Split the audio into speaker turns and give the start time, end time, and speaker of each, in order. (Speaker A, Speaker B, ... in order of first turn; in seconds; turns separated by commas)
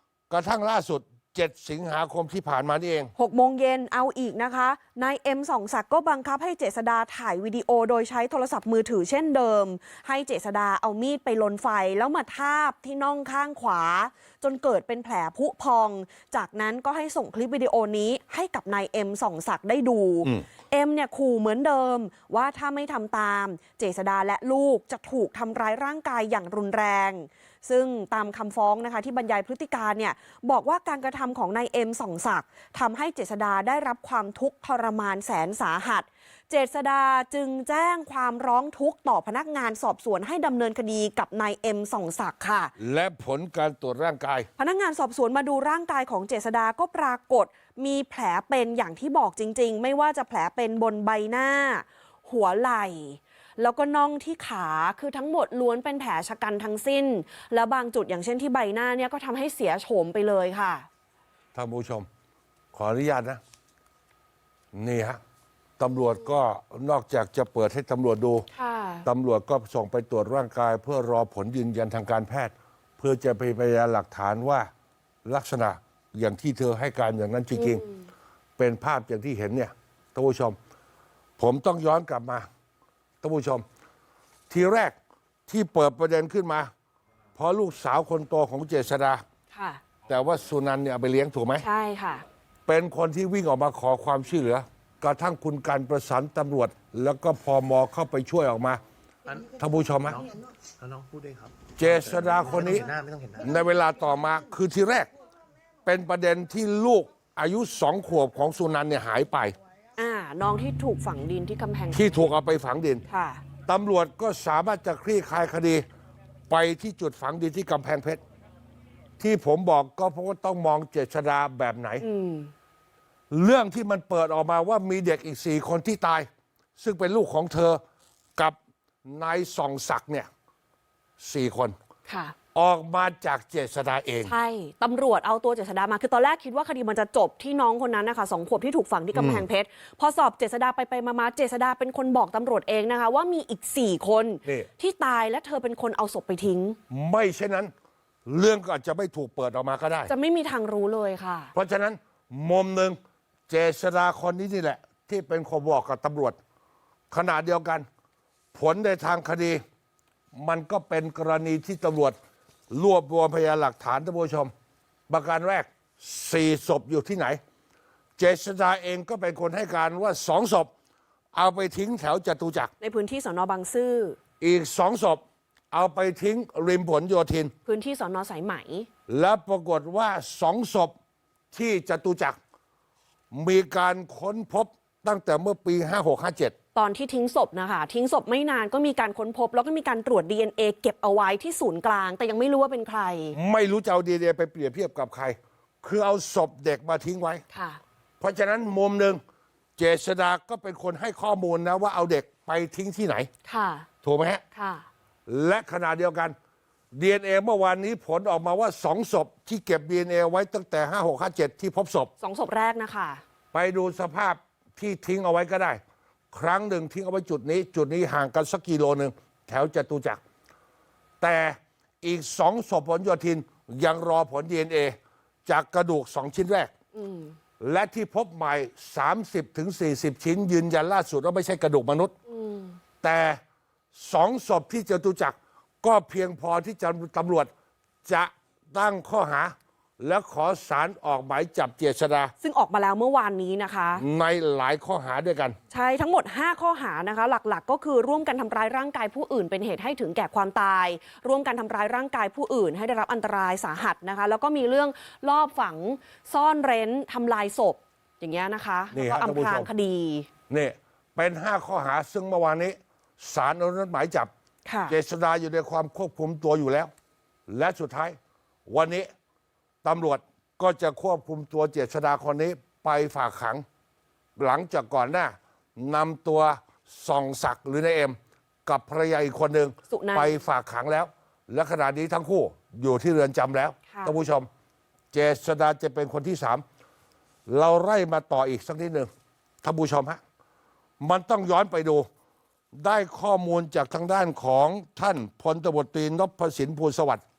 Speaker A: 0.3-3.1, Speaker B: 3.2-42.7, Speaker A: 42.8-44.5, Speaker B: 44.6-60.9, Speaker A: 61.5-62.1, Speaker A: 62.7-63.4, Speaker A: 64.7-65.2, Speaker A: 65.8-68.5, Speaker B: 68.5-69.1, Speaker A: 69.0-74.7, Speaker A: 75.2-77.8, Speaker B: 77.6-78.0, Speaker A: 78.6-80.6, Speaker A: 81.4-82.5, Speaker A: 83.2-83.6, Speaker A: 84.5-85.0, Speaker A: 85.5-86.7, Speaker A: 87.4-89.2, Speaker B: 89.5-89.8, Speaker A: 90.1-91.7, Speaker B: 91.6-92.2, Speaker A: 92.7-98.8, Speaker A: 99.5-100.2, Speaker C: 100.8-103.5, Speaker A: 101.8-102.9, Speaker A: 103.4-105.1, Speaker A: 105.8-109.6, Speaker B: 110.0-112.2, Speaker A: 111.9-113.0, Speaker B: 113.1-113.4, Speaker A: 113.7-115.8, Speaker A: 116.5-118.2, Speaker A: 119.2-122.0, Speaker B: 122.0-122.5, Speaker A: 123.3-126.3, Speaker A: 126.8-127.8, Speaker A: 128.4-130.3, Speaker A: 131.2-131.8, Speaker B: 132.1-132.3, Speaker A: 132.5-134.3, Speaker B: 134.2-146.8, Speaker A: 139.1-139.5, Speaker A: 146.9-147.7, Speaker A: 148.3-150.1, Speaker B: 150.1-151.5, Speaker A: 151.5-156.4, Speaker A: 157.1-157.9, Speaker A: 158.5-159.6, Speaker A: 160.3-162.2, Speaker A: 162.7-164.5, Speaker A: 165.1-167.4, Speaker A: 168.2-170.7, Speaker A: 171.3-172.7, Speaker B: 172.8-174.2, Speaker A: 174.4-177.5, Speaker B: 177.7-178.9, Speaker A: 179.1-180.9, Speaker A: 181.5-182.4, Speaker A: 183.3-186.5, Speaker B: 186.8-193.4, Speaker A: 193.3-197.4, Speaker B: 197.5-197.8, Speaker A: 198.2-199.2, Speaker A: 199.8-203.3, Speaker B: 203.5-203.9, Speaker A: 204.0-204.4, Speaker B: 204.6-204.9, Speaker A: 205.3-206.4, Speaker A: 206.9-212.1, Speaker B: 212.2-213.2, Speaker A: 213.5-215.8, Speaker A: 216.3-220.2, Speaker A: 221.2-226.7, Speaker B: 227.0-227.4, Speaker A: 227.6-232.1, Speaker B: 232.3-232.8, Speaker A: 233.0-233.4, Speaker A: 233.9-237.5, Speaker A: 238.1-242.3, Speaker B: 242.4-244.0, Speaker A: 244.0-245.6, Speaker B: 245.7-260.3, Speaker A: 258.9-259.7, Speaker A: 260.5-264.3, Speaker B: 264.7-264.9, Speaker A: 264.9-266.9, Speaker A: 267.5-269.1, Speaker A: 269.8-273.6, Speaker A: 274.4-284.5, Speaker B: 279.9-280.4, Speaker A: 285.1-286.6, Speaker A: 287.5-289.1, Speaker A: 289.6-290.2, Speaker A: 291.0-292.1, Speaker A: 292.7-297.2